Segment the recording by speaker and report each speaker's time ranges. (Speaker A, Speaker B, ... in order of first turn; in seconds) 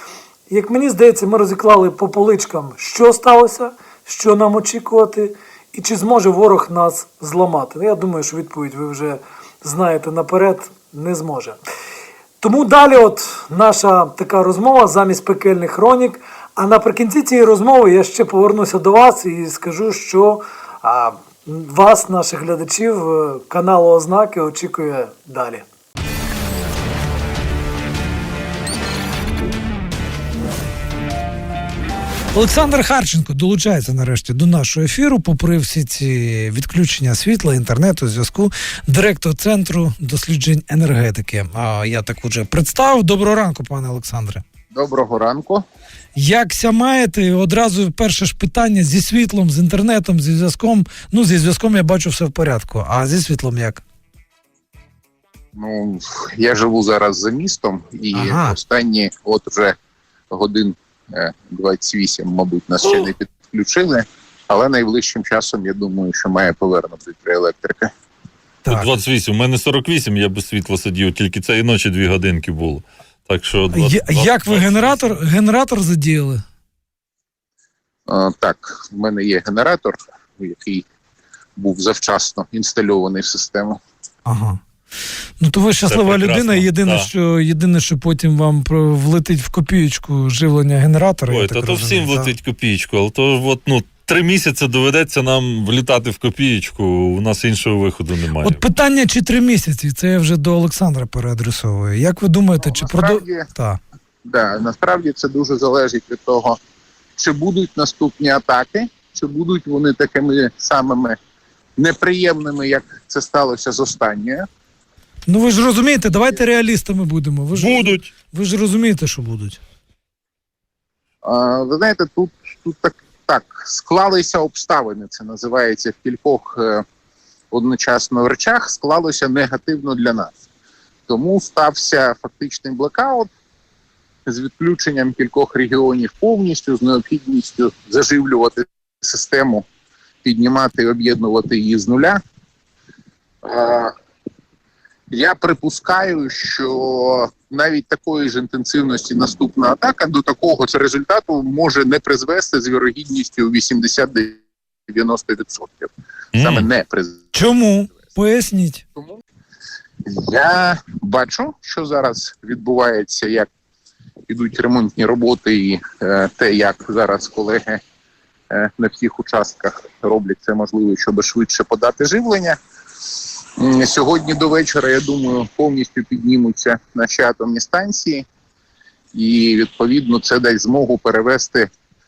Speaker A: 0.5-11.6, 12.4-25.6, 32.3-44.4, 46.1-53.8, 58.1-58.6, 73.7-76.4, 84.2-84.6, 85.4-92.3, 98.4-103.8, 115.3-119.6, 157.3-158.8
Speaker B: 44.7-45.6, 55.5-59.8, 60.3-67.9, 78.1-80.8, 81.6-83.8, 102.6-103.5, 104.2-106.6, 107.2-111.2, 111.8-114.5, 121.2-126.8, 127.5-130.3, 131.1-133.3, 134.2-139.6, 140.2-142.2, 143.4-143.9, 145.1-157.3, 160.0-163.5, 164.3-167.8, 168.5-172.6, 173.6-178.2, 179.1-181.7
Speaker C: 68.7-75.2, 85.8-87.1, 91.3-98.6, 117.5-118.1, 156.3-156.7